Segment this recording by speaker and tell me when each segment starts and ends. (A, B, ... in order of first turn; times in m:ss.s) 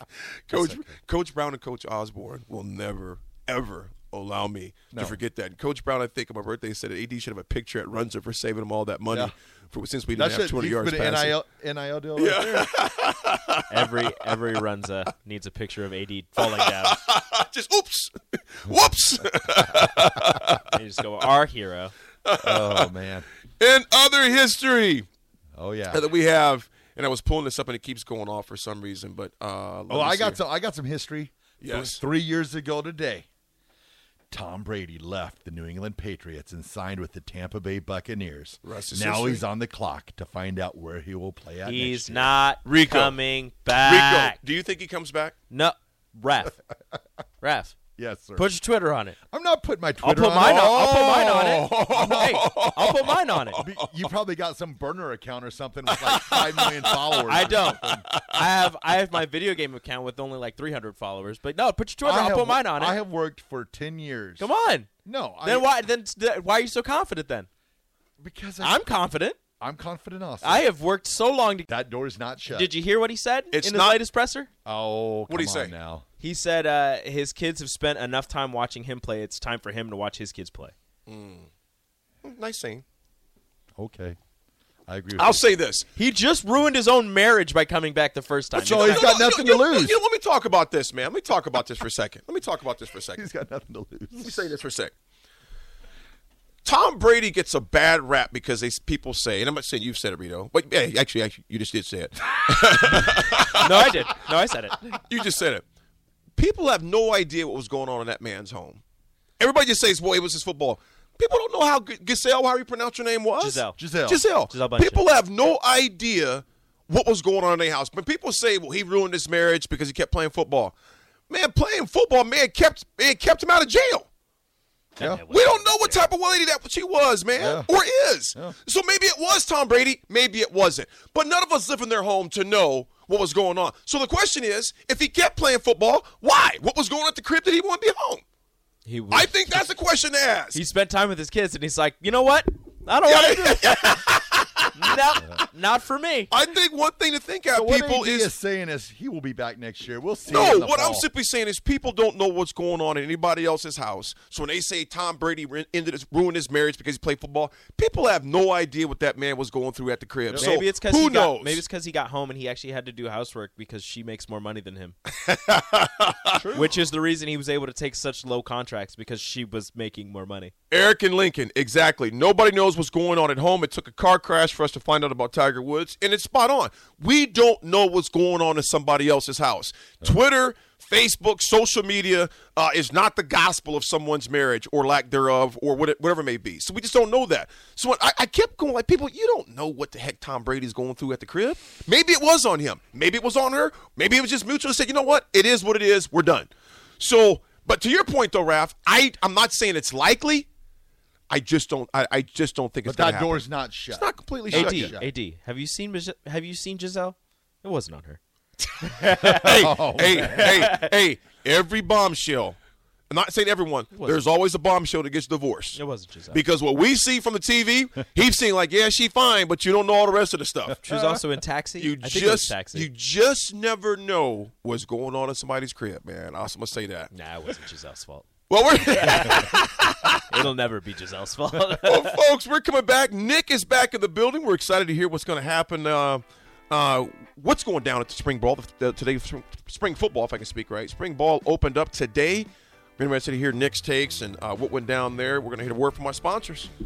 0:00.5-0:11.4 A
0:00.5-0:00.9 B
0:04.9-0:05.2 B
0:10.1-0:12.7 B
0:12.2-0:13.9 A
0:13.7-0:17.0 C
0:16.4-0:20.7 A
0:19.8-0:20.3 B
0:20.7-0:21.9 C
0:22.2-0:22.9 A
0:22.4-0:23.3 B
0:23.6-0:25.1 A
0:25.6-0:26.0 B
0:25.9-0:30.4 A
0:29.9-0:33.2 B
0:31.6-0:32.0 A
0:34.3-0:42.3 B
0:38.6-0:39.4 A
0:41.6-0:44.4 C
0:42.6-0:43.2 A
0:43.8-0:45.3 A
0:45.5-0:46.6 C
0:47.4-0:47.8 C
0:48.0-0:48.5 B
0:48.3-0:49.2 C
0:49.3-0:50.8 B
0:50.0-0:53.6 C
0:50.4-0:53.9 A
0:51.9-0:52.4 B
0:53.6-0:58.1 B
0:55.9-0:58.4 A
0:57.3-1:03.0 C
1:02.0-1:04.5 B
1:04.4-1:04.9 C
1:05.0-1:05.7 B
1:05.4-1:07.5 C
1:08.2-1:08.8 B
1:08.6-1:09.4 C
1:09.6-1:10.7 B
1:10.4-1:11.7 C
1:11.7-1:12.7 B
1:12.4-1:14.5 C
1:13.5-1:14.0 A
1:14.6-1:16.0 B
1:15.3-1:15.7 A
1:16.2-1:20.7 C
1:21.1-1:21.5 A
1:22.2-1:22.8 A
1:23.8-1:24.2 B
1:24.9-1:25.5 B
1:25.2-1:25.9 A
1:26.0-1:29.1 C
1:28.5-1:30.0 B
1:28.6-1:33.3 A
1:33.2-1:34.4 B
1:34.2-1:34.9 A
1:36.6-1:44.1 A
1:43.6-1:45.0 C
1:44.9-1:45.6 A
1:46.4-1:48.8 A
1:49.4-2:00.7 A
1:53.4-1:53.8 C
1:53.8-1:54.2 B
1:54.4-1:55.0 C
2:01.3-2:04.1 A
2:05.0-2:06.1 C
2:05.3-2:18.2 A
2:07.4-2:07.7 B
2:18.8-2:19.6 C
2:19.1-2:20.6 A
2:20.5-2:24.0 C
2:23.0-2:25.2 A
2:24.7-2:26.3 C
2:26.3-2:28.3 A
2:27.5-2:31.1 B
2:30.3-2:41.6 A
2:40.3-2:44.9 C
2:45.2-2:46.5 A
2:46.4-2:46.7 B
2:46.5-2:50.5 C
2:50.7-3:20.5 A
3:21.3-3:24.9 A
3:22.8-3:25.1 B
3:24.5-3:28.2 C
3:28.8-3:30.8 C
3:29.0-3:32.6 A
3:29.4-3:30.7 B
3:33.1-3:35.8 A
3:33.9-3:34.2 C
3:35.7-3:36.4 C
3:36.3-3:40.8 A
3:40.7-3:41.2 B
3:40.8-3:42.9 C
3:41.8-3:47.5 A
3:47.1-3:48.3 C
3:48.5-3:50.3 A
3:48.8-3:49.7 C
3:50.3-3:52.2 C
3:51.8-4:06.7 A